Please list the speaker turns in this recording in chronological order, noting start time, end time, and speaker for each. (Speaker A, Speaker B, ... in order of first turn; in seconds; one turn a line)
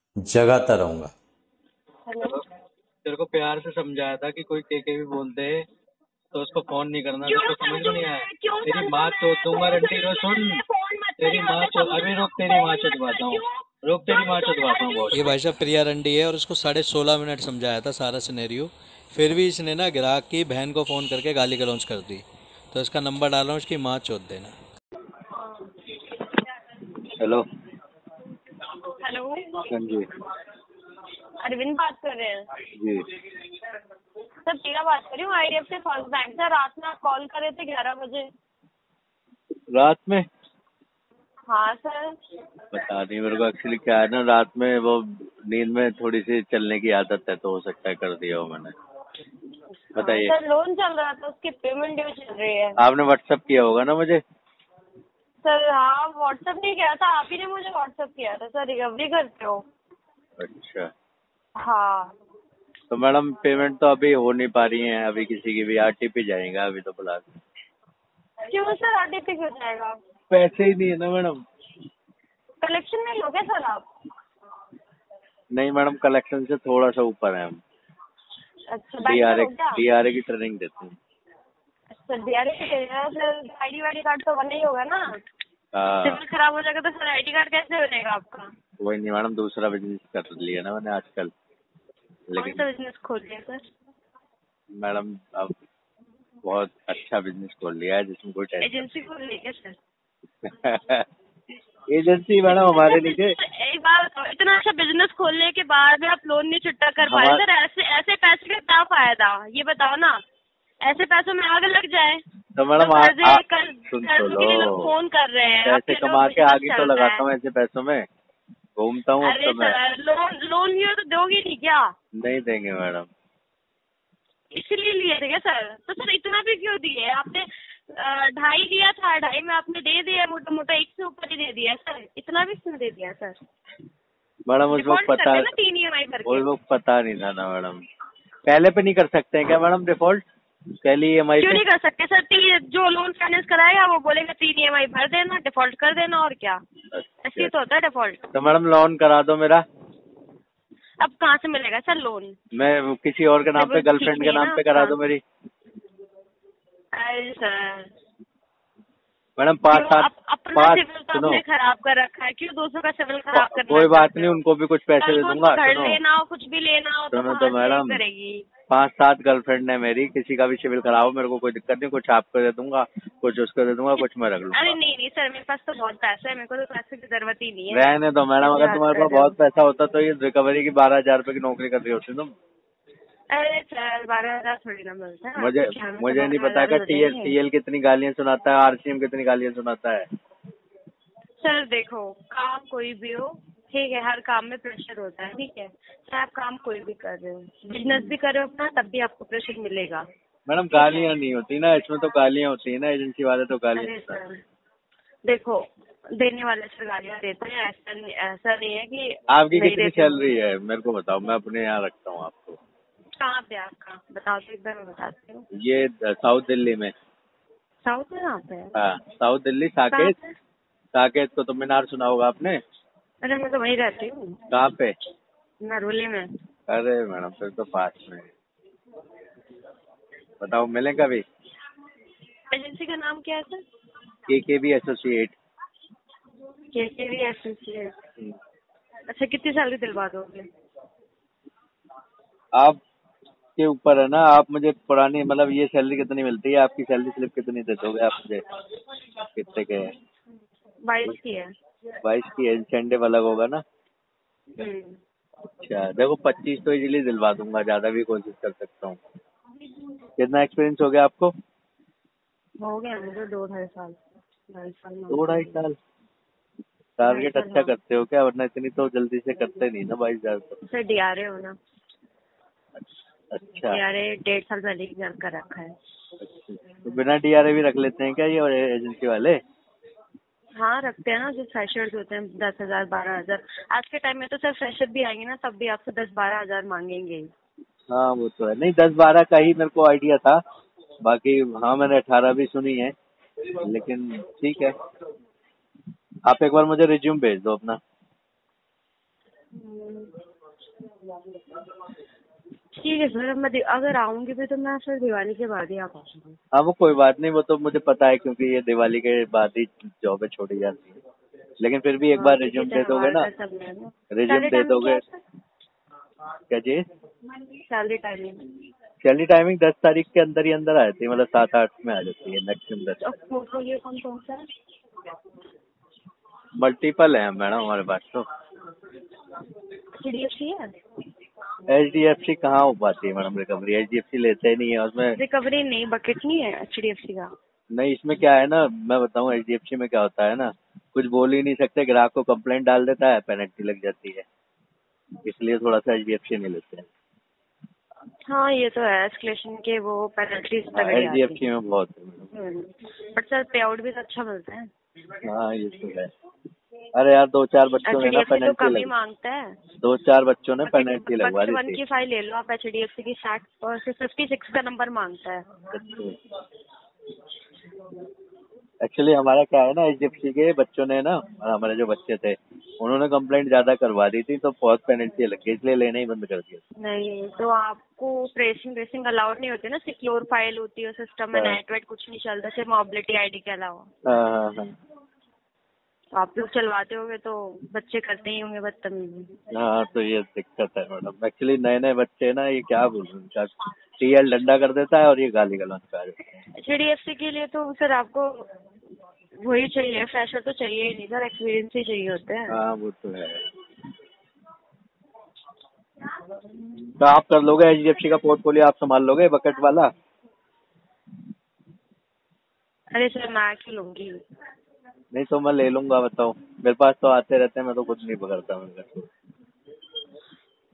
Speaker A: 0.2-1.1
Speaker B: 2.1-2.4
Speaker C: 3.0-5.7
Speaker C: 6.3-10.6
Speaker B: 7.2-15.4
Speaker A: 9.0-9.6
Speaker C: 11.2-15.6
Speaker A: 15.1-24.5
Speaker C: 17.1-17.5
Speaker C: 20.4-21.1
Speaker C: 22.7-23.2
Speaker C: 24.1-24.5
Speaker B: 25.4-25.7
Speaker C: 27.2-27.4
Speaker B: 28.8-29.7
Speaker C: 29.7-30.1
Speaker B: 31.4-32.5
Speaker C: 32.8-33.1
Speaker B: 34.5-38.3
Speaker C: 39.7-40.3
Speaker B: 41.5-42.2
Speaker C: 42.7-48.7
Speaker C: 50.0-50.3
Speaker B: 50.0-52.8
Speaker C: 52.8-54.2
Speaker B: 55.4-59.6
Speaker C: 60.4-60.9
Speaker B: 61.6-62.1
Speaker C: 62.9-67.3
Speaker B: 68.5-70.0
Speaker C: 70.3-71.4
Speaker B: 72.6-73.8
Speaker C: 75.5-77.6
Speaker B: 78.7-79.8
Speaker C: 79.0-81.0
Speaker B: 81.9-85.2
Speaker C: 85.7-86.2
Speaker B: 86.0-88.5
Speaker C: 88.8-91.3
Speaker C: 92.3-92.6
Speaker B: 92.4-93.6
Speaker C: 94.8-95.5
Speaker C: 96.4-98.8
Speaker B: 98.6-99.8
Speaker C: 100.4-101.1
Speaker C: 101.9-103.4
Speaker B: 102.5-110.2
Speaker C: 107.0-107.4
Speaker B: 110.8-112.2
Speaker C: 112.5-114.9
Speaker B: 112.8-117.2
Speaker C: 115.6-118.1
Speaker C: 118.8-119.8
Speaker B: 119.2-121.9
Speaker C: 122.2-123.1
Speaker B: 124.5-133.4
Speaker C: 134.5-135.5
Speaker B: 134.7-136.5
Speaker C: 136.2-137.8
Speaker C: 138.5-140.2
Speaker C: 140.8-141.6
Speaker B: 141.4-146.6
Speaker C: 146.9-147.5
Speaker B: 147.2-148.2
Speaker C: 148.3-149.6
Speaker B: 151.0-152.3
Speaker C: 152.5-155.2
Speaker B: 153.5-155.0
Speaker B: 156.9-157.9
Speaker C: 159.4-161.4
Speaker B: 159.7-164.4
Speaker C: 163.3-166.0
Speaker B: 165.0-168.5
Speaker C: 167.1-168.0
Speaker C: 168.7-174.8
Speaker B: 174.0-179.3
Speaker C: 177.7-182.3
Speaker B: 183.3-187.3
Speaker C: 185.4-190.1
Speaker B: 191.4-200.0
Speaker C: 200.5-204.2
Speaker B: 200.7-201.1
Speaker B: 203.8-204.4
Speaker B: 205.2-205.6
Speaker B: 206.2-210.3
Speaker C: 209.3-212.6
Speaker B: 213.1-215.4
Speaker C: 215.5-216.9
Speaker B: 217.8-218.8
Speaker C: 218.8-220.2
Speaker B: 219.9-220.3
Speaker C: 220.9-222.6
Speaker B: 223.2-224.4
Speaker C: 224.5-225.0
Speaker B: 225.6-226.3
Speaker C: 226.7-228.3
Speaker C: 230.4-231.2
Speaker B: 232.5-233.6
Speaker C: 234.3-235.3
Speaker B: 236.7-237.9
Speaker B: 239.1-240.5
Speaker C: 243.6-248.4
Speaker C: 249.3-249.9
Speaker B: 250.8-251.5
Speaker C: 252.0-253.6
Speaker B: 254.6-255.0
Speaker C: 255.6-259.0
Speaker C: 260.2-261.3
Speaker B: 262.6-264.0
Speaker B: 264.5-265.6
Speaker C: 265.1-265.8
Speaker C: 267.0-270.6
Speaker B: 267.0-267.7
Speaker B: 270.6-271.5
Speaker C: 273.3-273.8
Speaker B: 273.6-275.7
Speaker C: 276.2-279.4
Speaker B: 280.6-287.3
Speaker C: 287.9-290.4
Speaker C: 291.0-292.9
Speaker C: 293.5-294.8
Speaker C: 296.2-297.8
Speaker B: 299.5-300.1
Speaker B: 302.7-306.4
Speaker C: 306.5-311.0
Speaker C: 311.6-313.3
Speaker B: 312.1-315.2
Speaker C: 314.1-315.0
Speaker C: 316.5-316.8
Speaker B: 317.6-318.4
Speaker C: 319.0-323.0
Speaker B: 323.0-324.4
Speaker C: 326.6-328.2
Speaker B: 330.0-330.8
Speaker C: 331.7-335.2
Speaker B: 335.1-337.3
Speaker C: 337.7-344.2
Speaker C: 345.2-346.9
Speaker B: 348.3-351.4
Speaker C: 350.7-352.3
Speaker B: 352.3-354.7
Speaker C: 355.2-356.1
Speaker C: 356.9-358.9
Speaker B: 357.8-359.6
Speaker C: 359.8-361.8
Speaker B: 360.6-365.4
Speaker C: 365.7-366.1
Speaker C: 368.8-376.6
Speaker B: 376.8-383.9
Speaker C: 381.3-381.6
Speaker C: 384.0-384.7
Speaker B: 386.1-389.3
Speaker C: 389.5-396.4
Speaker B: 396.5-398.5
Speaker B: 399.4-402.6
Speaker C: 402.5-403.5
Speaker C: 407.0-409.9
Speaker B: 412.9-414.2
Speaker C: 415.1-419.1